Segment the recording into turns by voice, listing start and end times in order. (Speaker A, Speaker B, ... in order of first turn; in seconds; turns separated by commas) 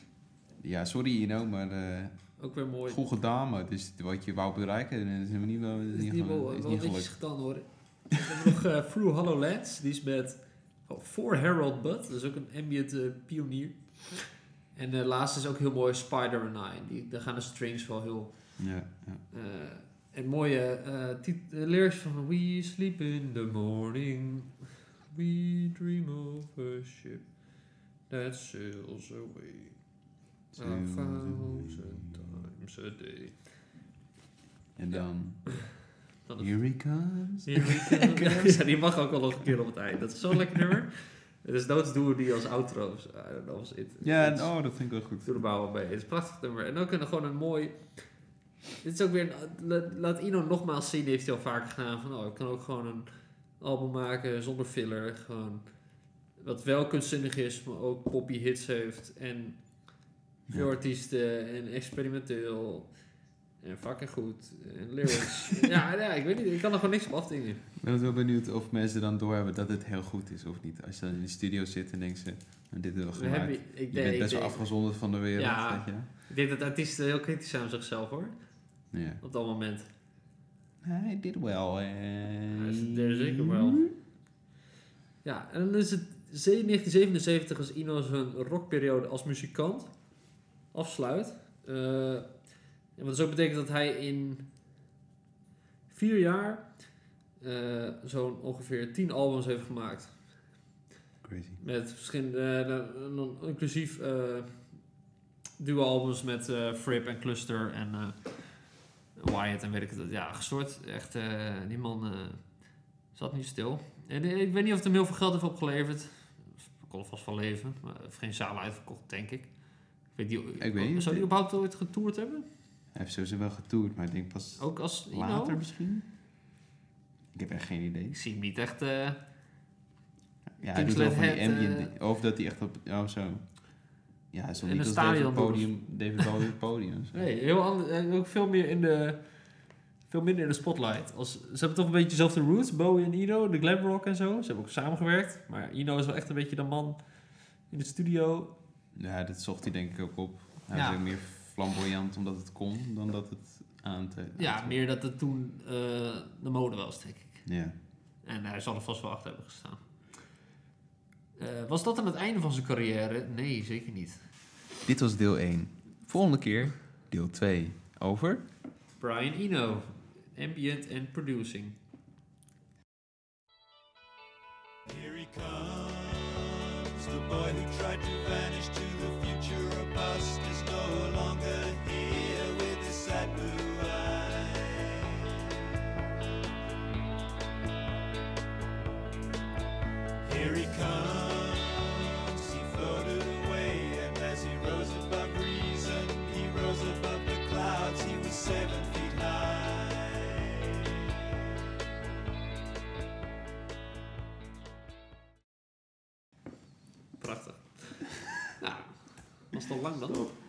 Speaker A: 0.6-2.2, Speaker B: 2.4-3.0, Speaker A: 2.9-7.1, Speaker B: 5.9-18.5, Speaker A: 18.6-19.2, Speaker B: 19.3-27.3, Speaker B: 28.1-29.8, Speaker A: 30.5-32.5, Speaker B: 30.6-33.4, Speaker A: 34.8-35.7, Speaker B: 36.2-36.5, Speaker A: 36.4-38.5, Speaker B: 37.5-44.5, Speaker A: 44.0-45.4, Speaker B: 45.2-47.8, Speaker B: 48.8-53.1, Speaker B: 53.6-55.6, Speaker B: 56.4-59.6, Speaker B: 60.5-62.9, Speaker B: 63.6-67.7, Speaker A: 67.8-76.1, Speaker B: 73.1-74.7, Speaker B: 75.3-78.3, Speaker A: 78.9-79.2, Speaker B: 79.2-79.9, Speaker A: 80.8-83.9, Speaker B: 82.5-83.9, Speaker B: 85.2-89.9, Speaker B: 90.7-92.3, Speaker B: 93.0-94.5, Speaker B: 95.9-96.7, Speaker B: 97.4-100.2, Speaker A: 101.2-101.6, Speaker B: 101.6-104.5, Speaker B: 105.6-108.4, Speaker B: 109.2-112.4, Speaker B: 113.1-119.5, Speaker B: 120.1-122.5, Speaker A: 120.6-121.3, Speaker A: 122.9-126.1, Speaker B: 124.6-125.6, Speaker A: 127.3-128.2, Speaker B: 128.1-129.2, Speaker A: 130.6-133.6, Speaker B: 130.7-131.9, Speaker A: 134.3-137.2, Speaker B: 134.6-136.3, Speaker B: 137.1-139.2, Speaker B: 140.1-147.0, Speaker B: 147.7-148.5, Speaker A: 148.9-154.8, Speaker B: 150.7-151.0, Speaker B: 154.3-157.4, Speaker A: 157.4-157.7, Speaker B: 158.2-159.8, Speaker B: 161.4-164.2, Speaker A: 164.8-168.4, Speaker B: 169.0-171.8, Speaker C: 174.9-185.6, Speaker C: 190.2-200.9, Speaker B: 207.2-210.3